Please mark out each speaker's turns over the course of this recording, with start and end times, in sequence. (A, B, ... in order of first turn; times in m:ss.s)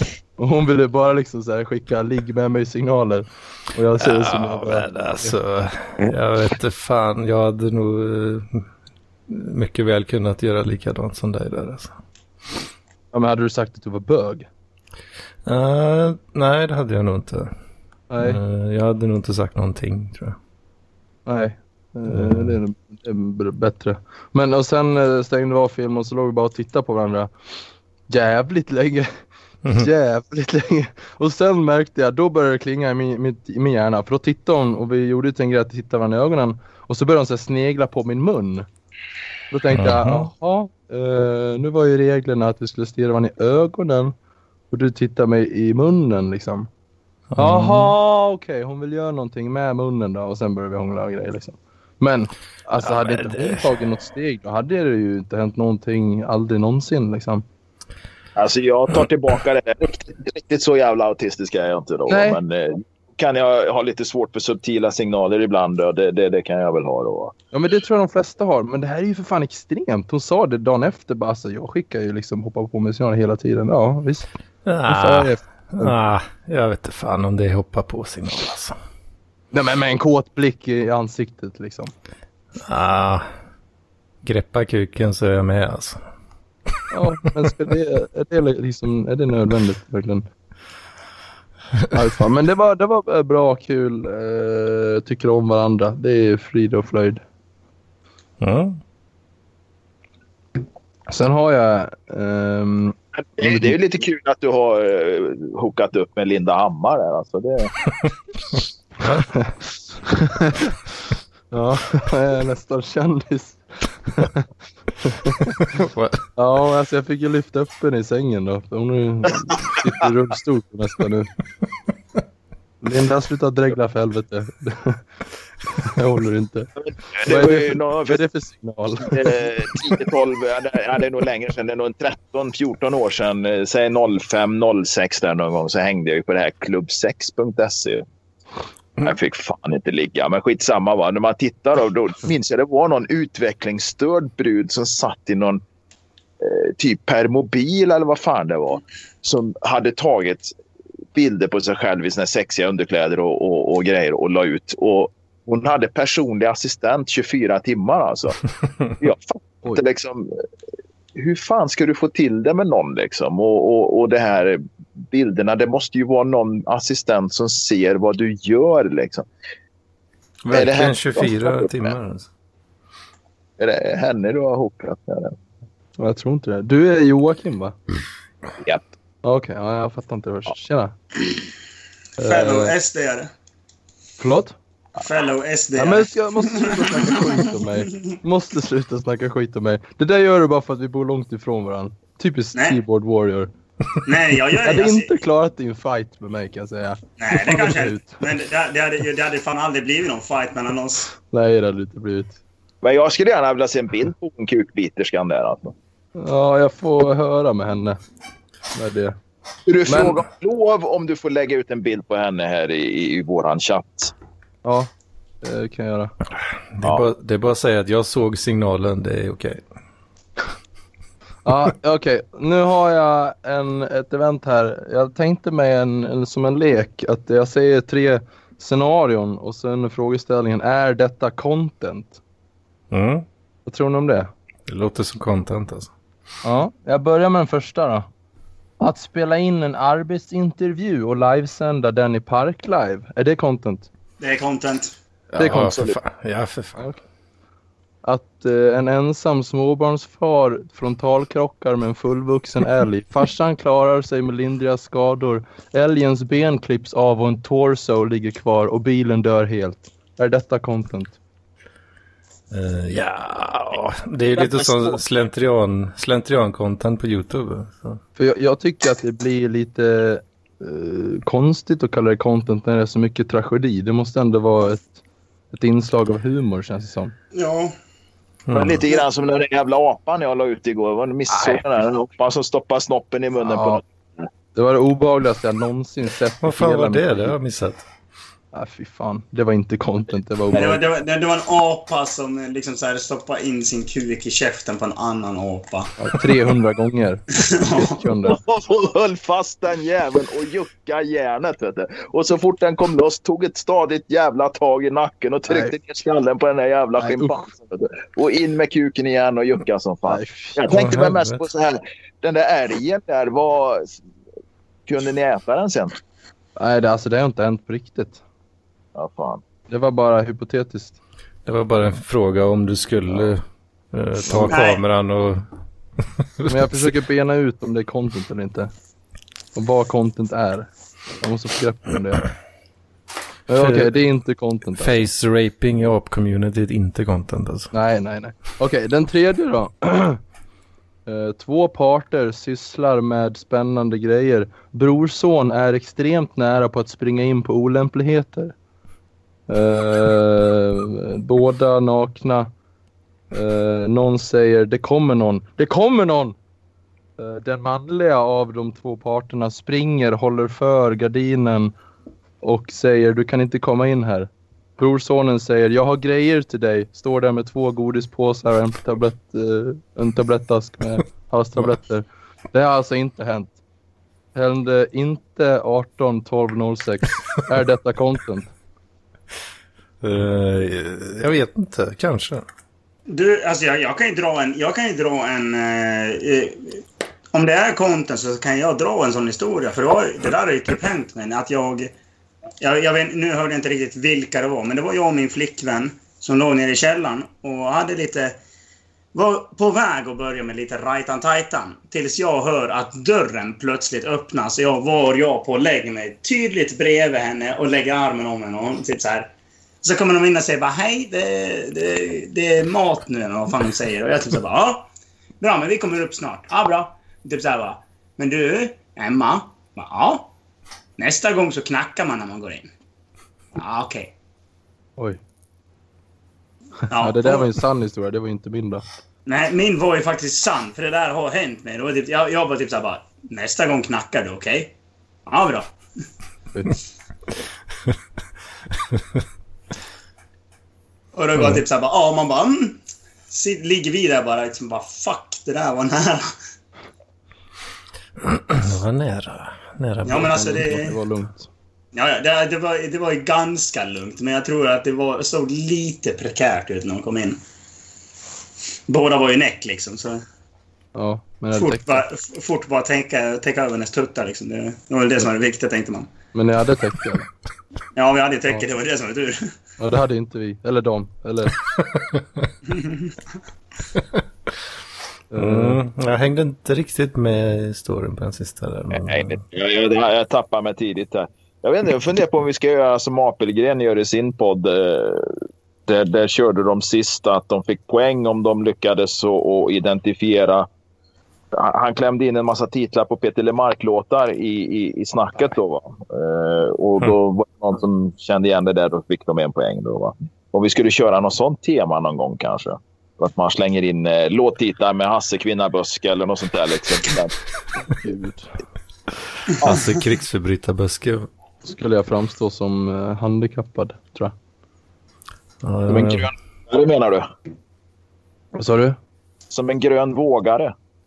0:00.4-0:05.4 A
0:04.0-0:08.6 B
0:09.3-0:11.9 B
0:13.1-0:14.5 A
0:15.4-0:17.5 B
0:18.1-0:18.4 A
0:18.2-0:20.4 B
0:21.2-0:27.3 A
0:22.1-0:22.6 B
0:28.1-0:29.2 A
0:29.8-0:38.7 A
0:39.5-0:44.1 A
0:39.7-0:40.3 B
0:44.7-0:46.7 A
0:47.3-0:47.9 B
0:47.4-0:57.4 A
0:52.8-0:53.7 B
0:58.4-1:07.3 C
1:02.1-1:02.4 A
1:07.5-1:14.3 A
1:14.6-1:18.8 B
1:14.9-1:15.9 A
1:19.5-1:21.9 A
1:22.7-1:23.2 B
1:24.2-1:26.0 B
1:26.9-1:30.3 A
1:31.9-1:37.2 A
1:38.4-1:38.8 B
1:41.1-1:43.8 A
1:43.4-1:47.7 C
1:49.2-1:49.5 A
1:50.1-1:50.7 A
1:51.5-1:54.4 A
1:55.0-1:55.5 A
1:55.7-1:56.2 B
1:56.4-2:01.3 A
2:02.8-2:05.0 A
2:05.8-2:06.7 A
2:06.8-2:08.2 C
2:07.2-2:09.4 A
2:09.0-2:18.0 C
2:19.0-2:25.6 C
2:26.4-2:30.5 C
2:31.1-2:38.4 C
2:39.0-2:40.3 C
2:41.1-2:49.3 C
2:50.4-2:52.3 B
2:50.5-2:51.9 C
2:53.6-2:55.4 C
2:56.0-2:57.8 A
2:59.2-3:00.9 A
3:02.2-3:02.7 A
3:02.2-3:03.3 D
3:04.2-3:04.6 A
3:05.0-3:08.1 D
3:05.7-3:13.5 A
3:12.5-3:12.8 D
3:14.0-3:15.1 D
3:14.6-3:18.2 A
3:17.2-3:21.1 D
3:21.3-3:22.4 A
3:22.8-3:25.7 C
3:26.2-3:28.0 A
3:28.7-3:29.2 A
3:29.6-3:34.1 C
3:29.9-3:30.2 A
3:34.6-3:34.9 A
3:35.4-3:36.1 A
3:36.7-3:39.6 B
3:41.4-3:52.2 A
3:52.9-3:53.2 B
3:53.6-3:54.3 A
3:54.7-3:55.9 B
3:56.4-3:58.1 A
3:58.8-4:03.9 A
4:04.2-4:04.9 D
4:05.4-4:06.8 B
4:05.4-4:05.8 A
4:05.5-4:06.0 C
4:08.0-4:21.2 A
4:22.5-4:28.0 B
4:28.2-4:35.0 A
4:35.5-4:37.1 A
4:37.3-4:37.7 D
4:38.5-4:38.8 B
4:38.5-4:44.3 C
4:41.3-4:41.6 A
4:43.4-4:43.8 A
4:44.5-4:47.4 A
4:46.4-4:47.8 B
4:48.5-4:50.8 A
4:50.5-4:55.9 D
4:56.0-4:58.4 A
4:57.3-4:58.1 D
4:58.2-5:13.9 C
5:05.5-5:05.7 A
5:07.0-5:07.4 A
5:10.0-5:10.8 A
5:10.7-5:11.4 B
5:14.9-5:16.0 C
5:16.6-5:18.2 A
5:18.9-5:19.4 C
5:19.7-5:21.0 A
5:21.4-5:25.4 B
5:24.5-5:24.8 D
5:26.4-5:27.0 B
5:26.5-5:28.7 A
5:29.5-5:30.7 A
5:31.2-5:32.2 A
5:33.5-5:35.0 A
5:33.5-5:34.0 B
5:34.8-5:37.7 B
5:37.7-5:40.2 A
5:41.0-5:48.5 A
5:49.5-5:52.5 A
5:53.3-5:56.4 A
5:57.2-6:01.7 A
6:02.4-6:13.6 A
6:14.3-6:18.5 A
6:20.0-6:22.4 B
6:23.1-6:31.9 D
6:32.6-6:38.4 D
6:39.1-6:49.3 D
6:49.8-6:54.9 D
6:55.4-7:00.3 D
7:01.0-7:02.7 D
7:03.5-7:04.1 D
7:06.9-7:07.5 D
7:06.9-7:08.8 A
7:09.2-7:14.7 D
7:15.3-7:15.7 D
7:21.1-7:26.3 D
7:28.2-7:30.7 B
7:30.0-7:30.9 D
7:30.2-7:31.5 A
7:31.9-7:37.4 D
7:38.9-7:40.2 D
7:40.9-7:42.0 A
7:41.5-7:46.1 D
7:46.3-7:47.3 A
7:48.0-7:49.5 D
7:49.8-7:51.5 A
7:51.7-7:52.5 B
7:52.7-7:53.2 D
7:54.0-7:54.2 B
7:55.3-7:55.8 A
7:55.4-7:59.4 B
7:58.9-8:05.3 C
8:05.9-8:10.7 C
8:11.5-8:27.3 C
8:28.0-8:28.5 A
8:29.6-8:31.3 B
8:31.6-8:34.3 A
8:35.6-8:36.3 B
8:35.9-8:37.3 C
8:38.5-8:39.0 A
8:39.5-8:40.7 C